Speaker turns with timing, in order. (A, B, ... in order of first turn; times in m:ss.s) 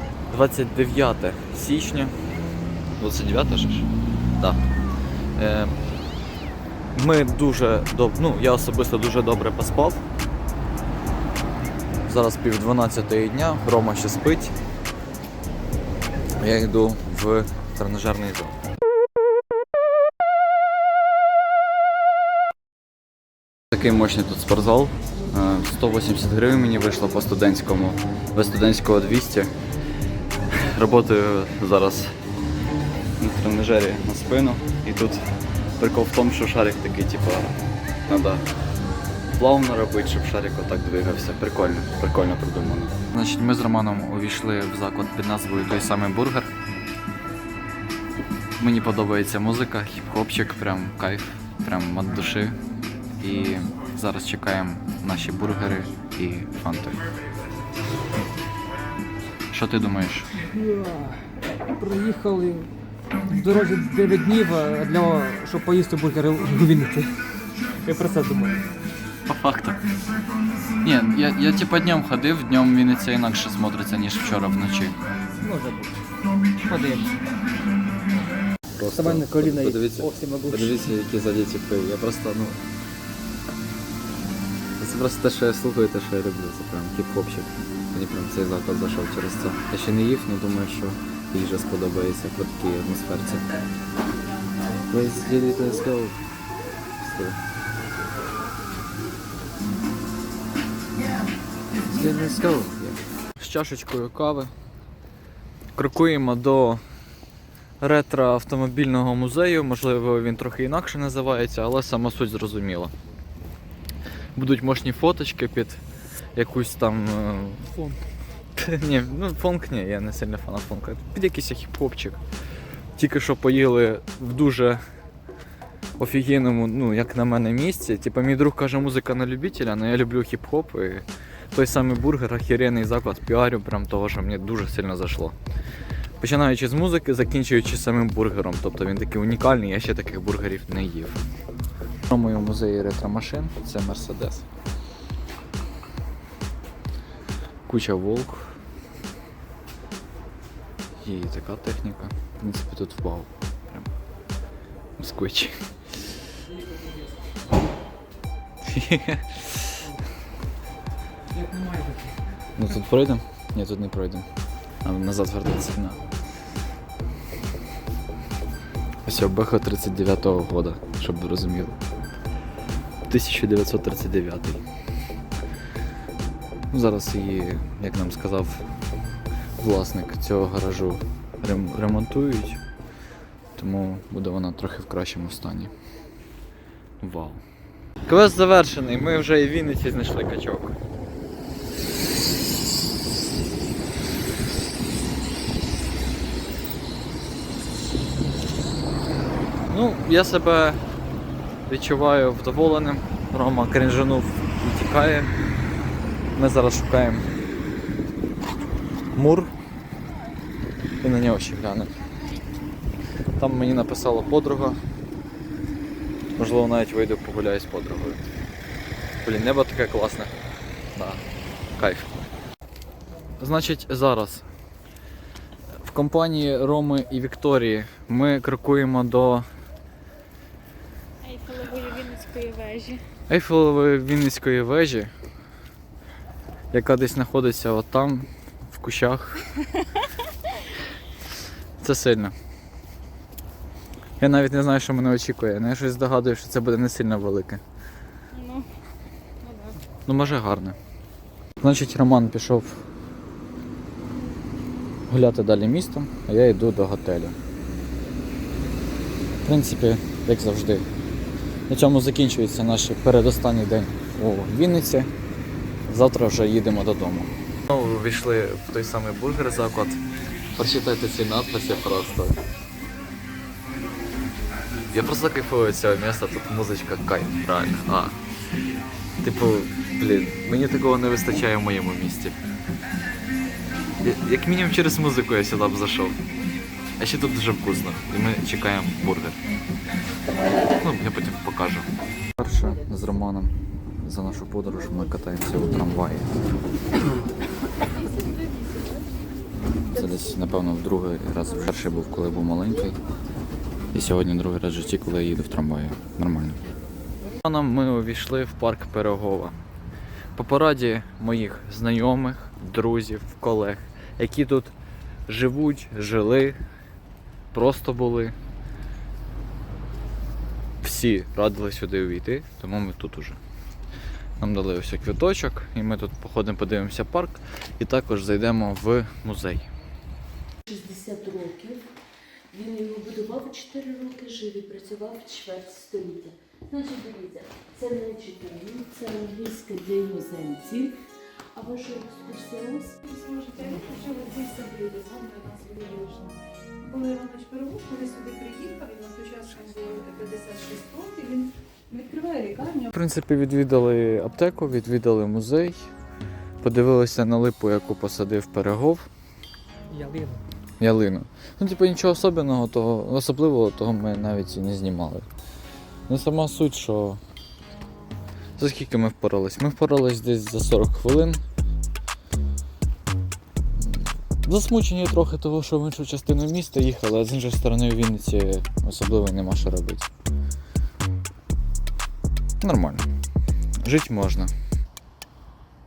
0:00.3-0:02.2 A
0:03.0-0:04.6 A
0:05.4-0:05.8 A
0:06.9-0:10.0 A
0:12.1-0:14.6 A
0:16.4-0:18.6 A
0:23.7-0:29.5 A
0:30.5-0:32.2 A
0:33.2-0:35.2 A
0:35.8-0:37.6 A
0:38.1-0:38.4 A
0:39.3-0:46.5 A
0:48.6-0:52.6 A
0:53.2-0:57.0 A
0:59.5-1:00.3 A
1:00.5-1:02.7 B
1:03.3-1:07.1 B
1:07.8-1:08.6 B
1:09.3-1:09.8 A
1:10.8-1:15.0 A
1:15.4-1:15.9 B
1:16.6-1:17.2 B
1:18.8-1:22.6 A
1:18.9-1:20.8 B
1:24.8-1:33.5 A
1:34.9-1:36.2 A
1:37.0-1:37.4 A
1:41.9-1:44.5 A
1:45.8-1:46.8 A
1:47.8-1:52.9 A
1:54.4-1:55.8 A
1:56.4-1:57.7 A
1:57.8-1:58.0 B
1:58.6-2:02.2 A
2:03.0-2:04.8 A
2:06.0-2:15.4 A
2:16.2-2:21.2 A
2:22.1-2:24.5 A
2:27.7-2:28.6 A
2:31.0-2:33.9 A
2:35.0-2:35.6 A
2:38.6-2:39.7 A
2:41.4-2:42.1 B
2:42.6-2:44.3 A
2:44.8-2:46.0 A
2:49.0-2:51.8 A
2:53.1-2:54.6 A
2:56.7-2:58.7 A
2:59.6-3:02.6 A
3:03.6-3:05.7 A
3:07.0-3:07.4 A
3:08.1-3:10.8 A
3:19.7-3:20.8 A
3:21.7-3:25.3 A
3:26.4-3:27.3 A
3:29.2-3:29.5 A
3:31.0-3:31.9 A
3:33.4-3:34.8 A
3:36.4-3:38.3 A
3:39.2-3:40.3 A
3:41.0-3:41.2 A
3:41.8-3:42.3 A
3:43.4-3:44.5 A
3:45.8-3:49.5 A
3:51.2-3:53.0 C
3:53.3-3:55.1 A
3:56.7-3:59.5 A
4:01.8-4:02.3 A
4:04.2-4:07.6 A
4:08.4-4:08.7 C
4:09.5-4:09.8 C
4:10.1-4:10.8 A
4:11.6-4:12.8 A
4:15.1-4:17.4 A
4:19.4-4:20.9 A
4:21.7-4:25.1 A
4:25.9-4:30.0 A
4:30.6-4:32.4 A
4:34.9-4:38.2 A
4:39.2-4:42.4 A
4:44.0-4:46.2 A
4:47.0-4:49.4 A
4:50.8-4:56.3 A
4:59.9-5:03.0 A
5:03.9-5:06.6 A
5:07.4-5:09.6 A
5:10.4-5:14.7 A
5:15.3-5:16.6 A
5:17.5-5:18.4 A
5:20.8-5:23.4 A
5:24.4-5:29.7 A
5:30.7-5:31.8 D
5:32.5-5:41.0 D
5:41.6-5:43.0 D
5:43.1-5:52.9 E
5:52.9-5:55.9 A
5:56.6-5:59.1 A
5:59.9-6:00.4 B
6:00.8-6:05.3 A
6:06.1-6:07.2 A
6:08.6-6:11.4 A
6:13.8-6:20.1 A
6:22.6-6:23.1 A
6:23.8-6:24.5 A